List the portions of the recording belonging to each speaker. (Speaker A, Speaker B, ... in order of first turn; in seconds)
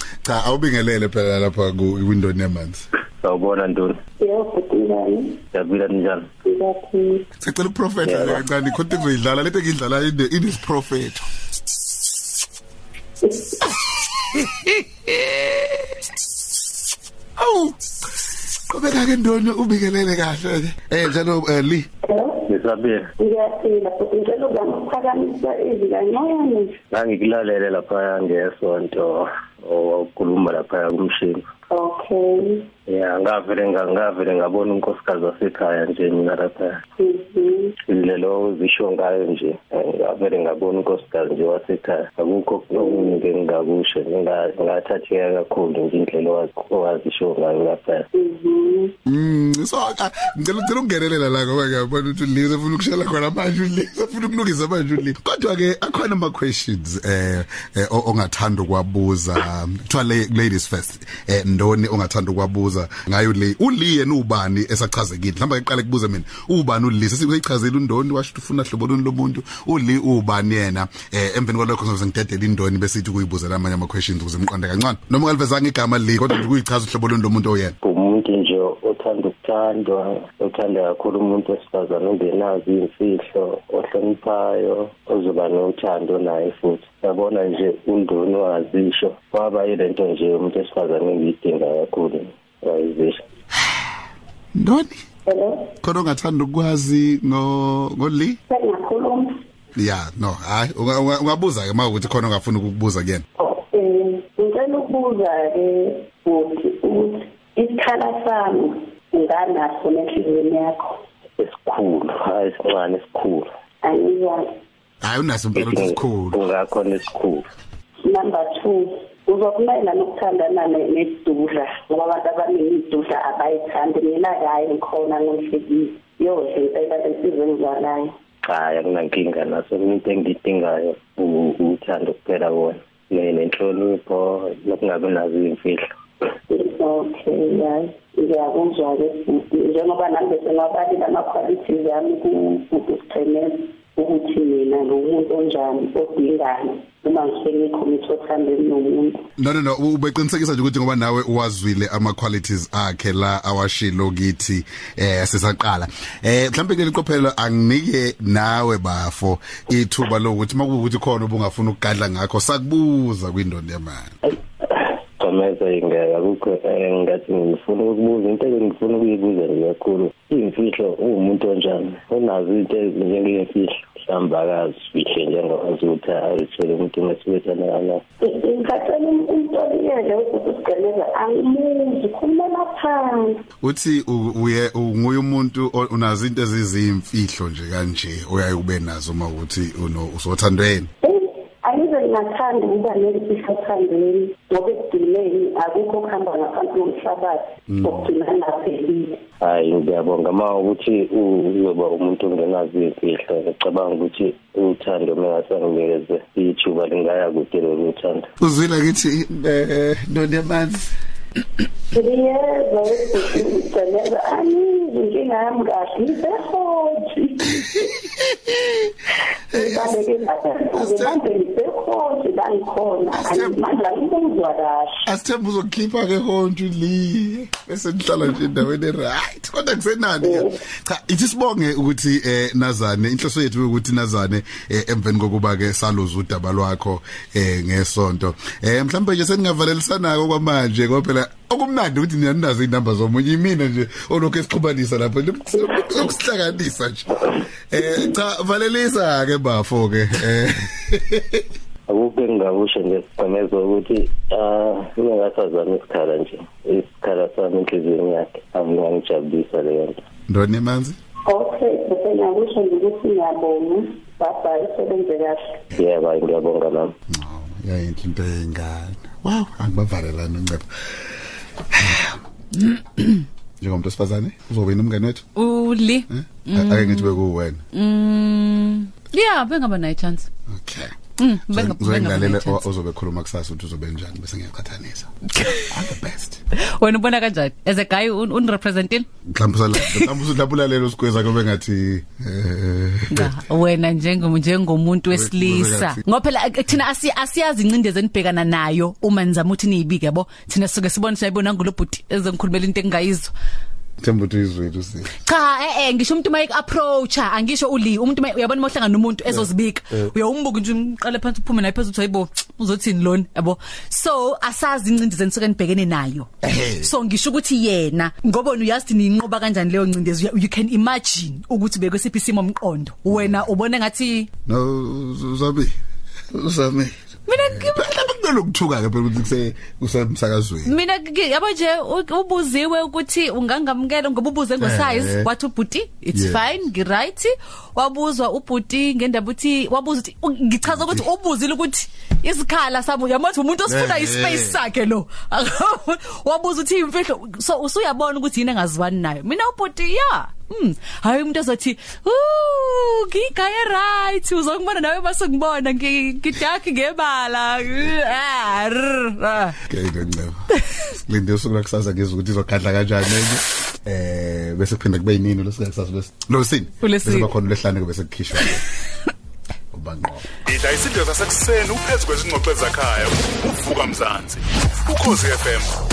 Speaker A: 0.2-2.8, 7.4-11.2, 13.7-15.8, 17.4-17.8, 18.7-21.9, 49.0-77.8, 94.5-95.0, 95.8-98.4, 99.8-103.2, 115.0-116.4, 149.4-164.1, 183.6-190.9, 197.7-198.1, 208.4-210.8, 217.5-218.9, 219.5-220.0, 220.7-221.2, 223.1-223.6, 225.0-251.4, 260.3-261.0, 267.1-270.6, 271.7-272.2, 273.1-275.3, 276.1-277.6, 280.5-280.9, 281.5-285.1, 285.6-286.4, 289.3-293.4, 295.1-296.0, 304.0-305.2, 316.4-316.9, 324.4-325.7, 326.3-330.7, 334.6-335.3, 336.1-336.4, 340.7-341.0, 343.7-344.6, 359.7-368.6, 369.7-370.3
Speaker B: 3.2-4.0, 5.5-6.3, 8.0-8.4, 22.5-23.1, 26.9-31.4, 32.9-36.8, 37.9-48.1, 77.8-93.2, 111.4-113.5, 115.5-117.5, 128.5-135.8, 164.6-178.0, 199.4-208.3, 251.9-260.0, 265.8-266.9
Speaker C: 4.2-5.4, 6.4-7.2, 13.3-13.6, 22.0-22.5, 23.2-26.8, 31.7-32.6, 37.0-37.7, 48.1-48.9, 95.3-95.7, 98.5-99.3, 103.4-111.0, 113.8-114.4, 118.0-128.1, 136.5-149.2, 178.2-183.4, 191.0-199.2, 211.9-217.6, 219.5-225.0, 230.2-230.5, 261.3-265.6
Speaker D: 275.4-277.2, 277.7-280.3, 281.2-282.6, 285.3-285.7, 286.8-289.1, 289.7-290.1, 293.1-303.3, 305.2-324.3, 327.3-327.9, 330.6-359.6, 366.8-367.3
Speaker E: 370.4-375.7